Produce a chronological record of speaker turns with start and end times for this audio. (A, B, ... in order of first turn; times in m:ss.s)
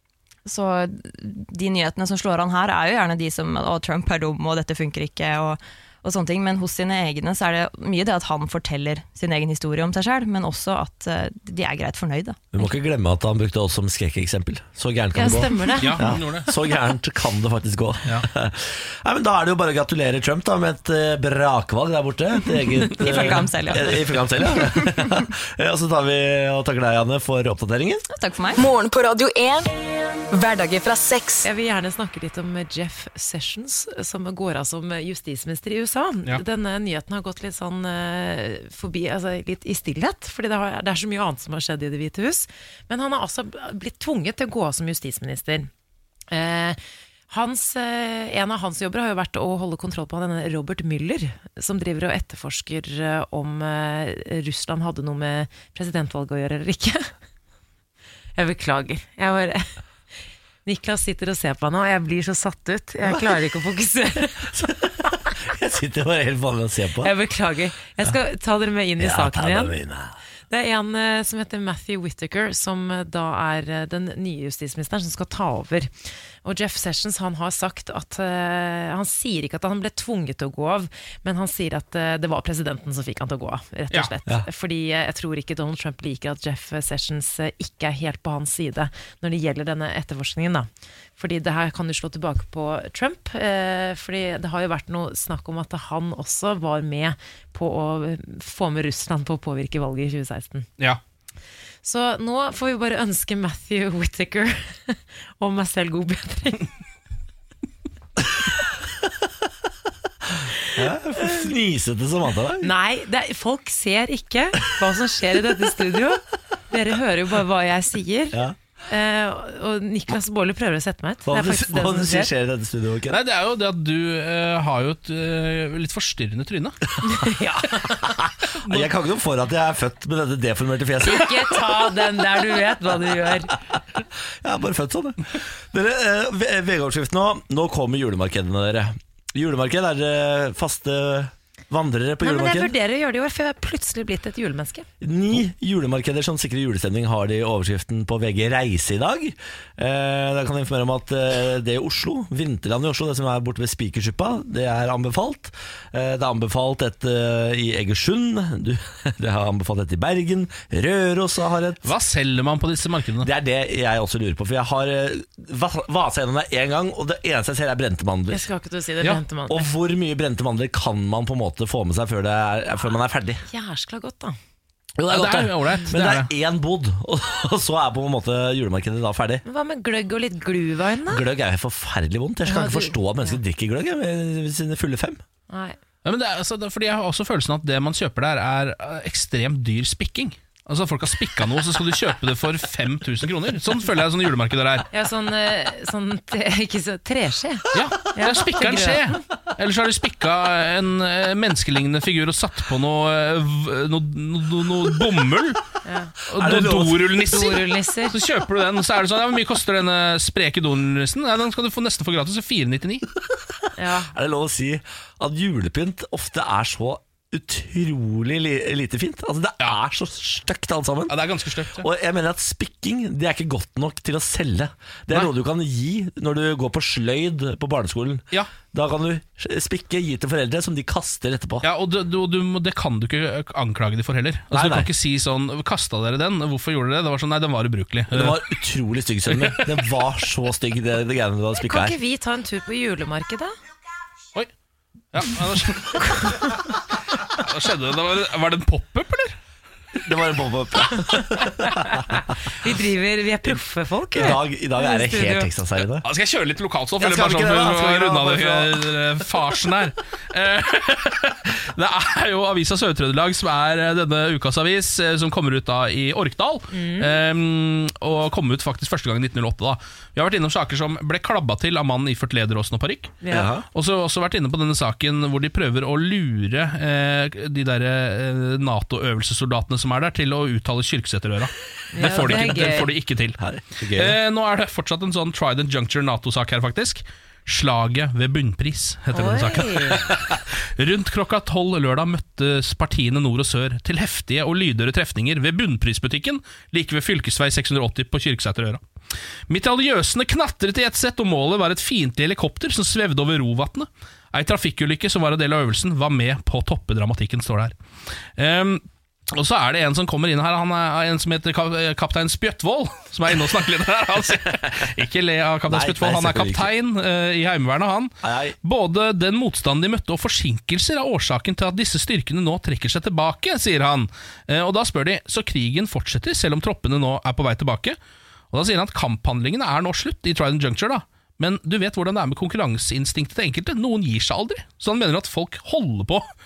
0:00.4-0:12.6 A
0:12.5-0:28.0 B
0:15.1-0:16.0 C
0:15.8-0:16.5 D
0:22.9-0:25.1 A
0:28.1-0:28.6 A
0:28.6-0:29.7 E
0:30.3-0:31.4 E
0:31.4-0:45.7 C
0:46.3-0:46.8 C
0:47.3-0:57.1 C
0:58.4-0:59.7 C
1:00.6-1:04.5 C
1:04.5-1:07.1 B
1:07.0-1:09.8 C
1:09.0-1:10.2 B
1:10.5-1:40.7 C
1:41.8-1:46.7 C
1:50.7-1:52.7 B
1:52.6-2:02.3 C
2:01.3-2:03.2 B
2:03.1-2:06.8 D
2:07.1-2:07.7 C
2:07.8-2:11.6 B
2:08.6-2:08.9 D
2:11.0-2:13.6 C
2:14.4-2:22.7 B
2:22.2-2:24.9 C
2:25.0-2:41.8 B
2:41.8-2:43.3 D
2:43.2-2:48.4 B
2:48.3-2:49.7 C
2:49.5-2:53.4 B
2:53.5-2:54.4 C
2:55.0-2:59.4 B
2:55.1-2:56.3 D
2:59.4-3:01.2 C
3:01.1-3:05.2 B
3:02.4-3:03.4 C
3:05.5-3:05.8 C
3:06.0-3:14.9 D
3:14.9-3:19.2 C
3:17.7-3:25.6 D
3:25.8-3:26.2 C
3:26.3-3:33.0 D
3:26.4-3:27.1 B
3:27.2-3:28.2 C
3:33.8-3:34.1 C
3:34.1-3:41.2 B
3:41.1-3:41.9 D
3:41.7-3:51.7 B
3:51.6-3:58.4 D
3:54.5-3:54.9 B
3:58.1-4:02.0 B
3:59.3-3:59.7 D
4:01.6-4:03.6 C
4:05.1-4:06.4 D
4:07.4-4:09.4 D
4:10.0-4:12.0 B
4:12.6-4:15.5 C
4:14.1-4:16.0 B
4:16.0-4:58.8 D
4:17.0-4:18.9 B
4:26.7-4:27.2 C
4:33.2-4:33.5 C
4:33.3-4:33.6 B
4:41.9-4:42.9 C
4:43.4-4:44.2 B
4:49.1-4:50.0 C
4:59.5-5:07.8 D
5:08.4-5:28.0 D
5:15.7-5:16.7 B
5:18.2-5:18.6 B
5:28.5-5:36.3 D